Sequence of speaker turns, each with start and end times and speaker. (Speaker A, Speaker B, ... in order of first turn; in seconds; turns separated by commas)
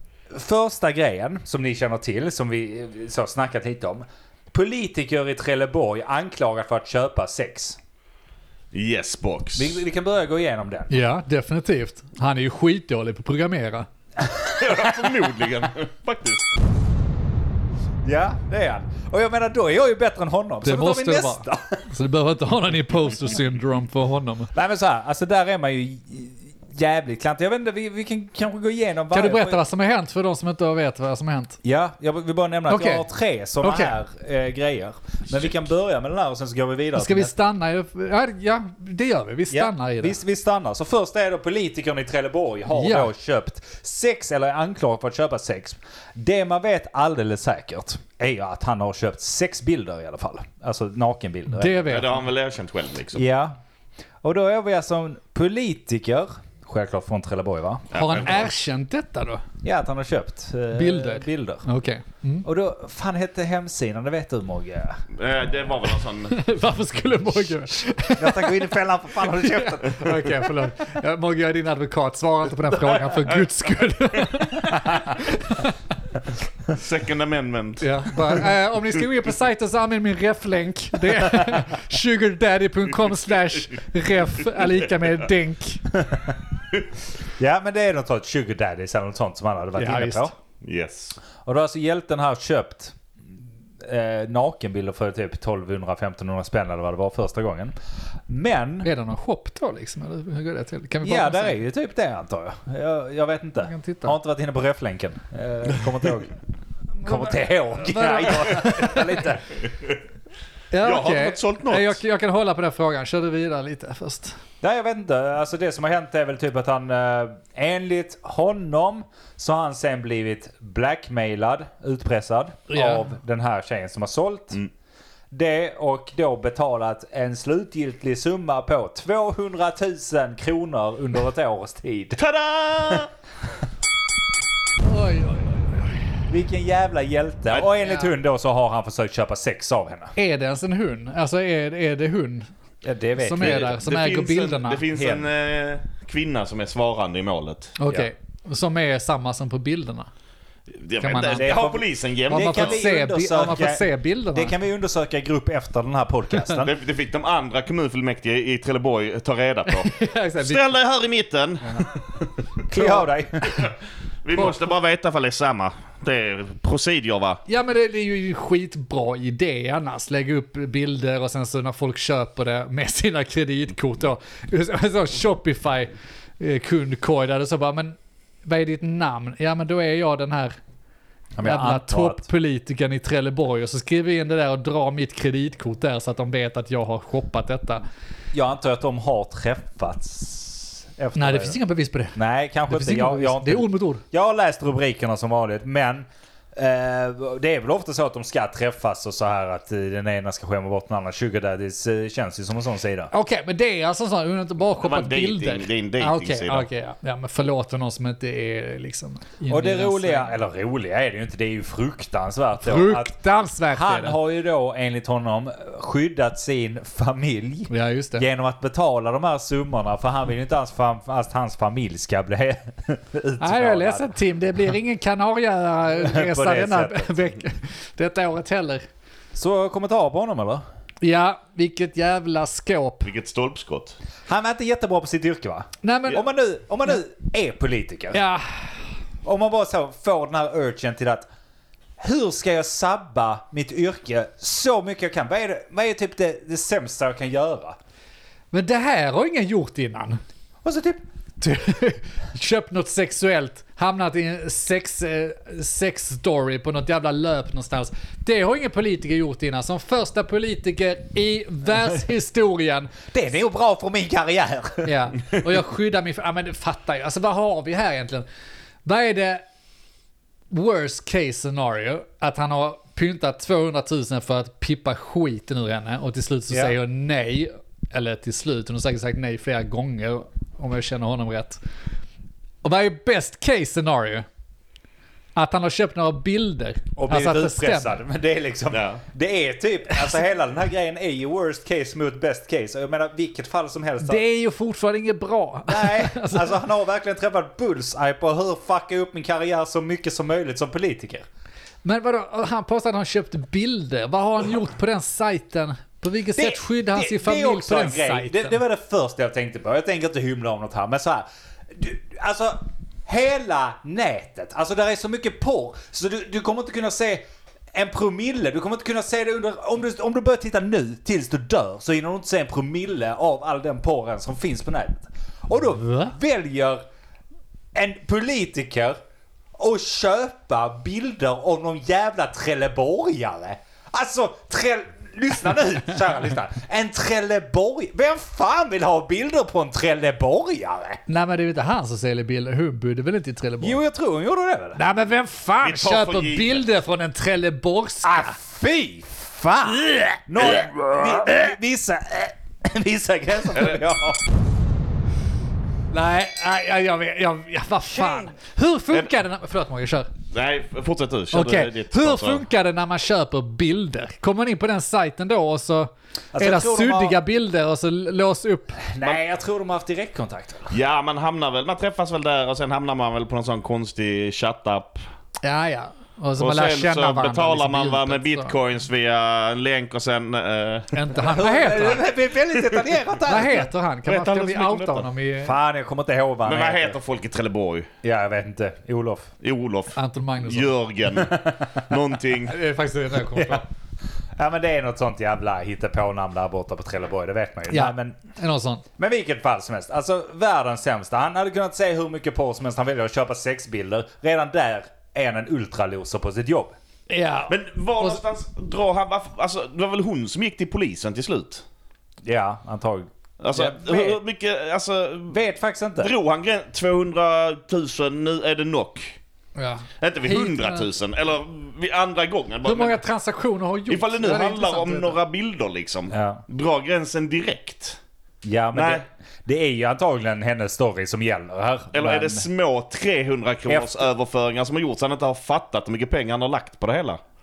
Speaker A: 0.3-7.8, Speaker B: 8.7-9.8, Speaker A: 9.6-11.0, Speaker C: 10.9-13.9, Speaker A: 14.2-15.5, Speaker B: 14.6-16.5, Speaker A: 18.0-21.8, Speaker C: 20.6-24.5, Speaker A: 24.5-29.6, Speaker C: 29.1-31.6, Speaker A: 31.6-37.3, Speaker C: 32.7-33.0, Speaker C: 33.6-33.9, Speaker C: 37.0-40.2, Speaker A: 39.5-52.0, Speaker C: 42.7-43.1, Speaker C: 51.5-52.2, Speaker B: 51.9-53.2, Speaker A: 53.1-53.6, Speaker A: 54.2-58.5, Speaker B: 57.9-58.5, Speaker C: 57.9-59.4, Speaker A: 59.6-61.6, Speaker C: 60.7-62.4, Speaker A: 62.4-65.0, Speaker B: 65.1-66.4, Speaker C: 66.3-75.7, Speaker A: 68.2-70.5, Speaker A: 74.8-75.1, Speaker B: 76.7-78.4, Speaker C: 77.8-85.8, Speaker A: 85.9-86.3, Speaker A: 87.2-90.3, Speaker C: 89.8-90.3, Speaker B: 90.6-91.2, Speaker A: 91.4-92.9, Speaker A: 93.8-97.7, Speaker A: 98.3-98.9, Speaker C: 98.8-101.6, Speaker A: 101.0-106.4, Speaker C: 103.6-104.1, Speaker C: 107.0-109.3, Speaker A: 107.0-109.7, Speaker C: 110.7-114.3, Speaker B: 110.8-112.0, Speaker A: 114.6-124.6, Speaker C: 122.7-123.1, Speaker A: 125.3-132.2, Speaker B: 132.2-133.1, Speaker C: 134.8-136.0, Speaker A: 136.3-140.1, Speaker C: 137.8-138.1, Speaker C: 140.2-142.5, Speaker A: 142.8-143.8, Speaker C: 143.2-144.8, Speaker B: 143.4-147.8, Speaker A: 144.9-145.3, Speaker C: 147.8-150.1, Speaker B: 150.7-152.8, Speaker C: 151.0-151.6, Speaker A: 151.3-156.7, Speaker C: 152.3-154.5, Speaker B: 156.5-161.9, Speaker C: 159.7-160.6, Speaker A: 162.7-163.7, Speaker C: 162.7-163.1, Speaker B: 164.2-167.4, Speaker C: 164.3-164.6, Speaker C: 167.5-180.6, Speaker A: 181.4-182.2, Speaker C: 181.4-187.8, Speaker A: 188.3-191.6, Speaker C: 191.2-192.2, Speaker A: 192.1-203.1, Speaker C: 192.7-194.0, Speaker C: 203.1-210.3, Speaker B: 204.8-206.7, Speaker A: 209.5-213.1, Speaker C: 212.6-214.2, Speaker A: 213.7-224.2, Speaker C: 217.7-218.2, Speaker C: 223.4-228.8, Speaker A: 225.9-227.2, Speaker A: 229.3-230.6, Speaker C: 231.0-233.1, Speaker B: 233.0-233.9, Speaker A: 234.3-238.2, Speaker C: 235.8-236.2, Speaker C: 238.1-238.8, Speaker A: 239.2-241.3, Speaker A: 242.0-247.8, Speaker C: 248.5-250.2, Speaker A: 250.6-251.0, Speaker C: 251.4-263.1, Speaker A: 261.7-262.0, Speaker A: 263.1-265.4, Speaker C: 264.8-268.2, Speaker C: 268.8-269.4, Speaker C: 270.5-281.6, Speaker C: 282.6-284.2, Speaker C: 285.4-288.0, Speaker A: 286.9-294.2, Speaker B: 288.7-289.0, Speaker C: 294.0-296.6, Speaker A: 295.7-301.2, Speaker C: 301.8-308.6, Speaker A: 306.3-317.2, Speaker A: 317.7-326.8, Speaker C: 325.8-326.1, Speaker A: 327.7-329.0, Speaker A: 329.6-341.0, Speaker C: 341.1-343.8, Speaker A: 343.6-344.8, Speaker C: 344.8-348.3, Speaker B: 345.6-346.6, Speaker A: 348.0-354.2, Speaker C: 349.9-350.2, Speaker B: 350.4-350.8, Speaker B: 353.5-353.8, Speaker C: 355.9-360.1, Speaker A: 357.9-358.3, Speaker B: 360.3-362.4, Speaker C: 361.3-368.8, Speaker A: 366.3-367.2, Speaker A: 368.8-370.7, Speaker B: 370.7-375.0, Speaker C: 375.4-378.5, Speaker B: 376.4-381.0, Speaker C: 380.9-382.1, Speaker A: 381.2-383.6, Speaker B: 382.6-383.0, Speaker C: 383.2-385.6, Speaker B: 384.1-385.1, Speaker A: 385.4-387.0, Speaker B: 386.4-387.9, Speaker A: 388.0-389.3, Speaker B: 389.4-392.6, Speaker C: 389.9-390.7, Speaker A: 391.1-391.9, Speaker C: 392.5-393.6, Speaker A: 393.3-393.6, Speaker A: 394.4-398.2, Speaker C: 397.7-398.8, Speaker A: 399.0-406.7, Speaker C: 407.1-408.2, Speaker B: 407.5-411.6, Speaker A: 412.2-414.2, Speaker B: 413.4-415.4, Speaker A: 415.3-416.1, Speaker B: 416.0-419.2, Speaker C: 419.6-420.9, Speaker B: 420.0-423.0, Speaker C: 422.6-425.2, Speaker B: 423.9-428.0, Speaker A: 426.1-426.4, Speaker A: 428.4-432.4, Speaker B: 428.7-429.0, Speaker B: 431.9-437.2, Speaker A: 433.7-434.1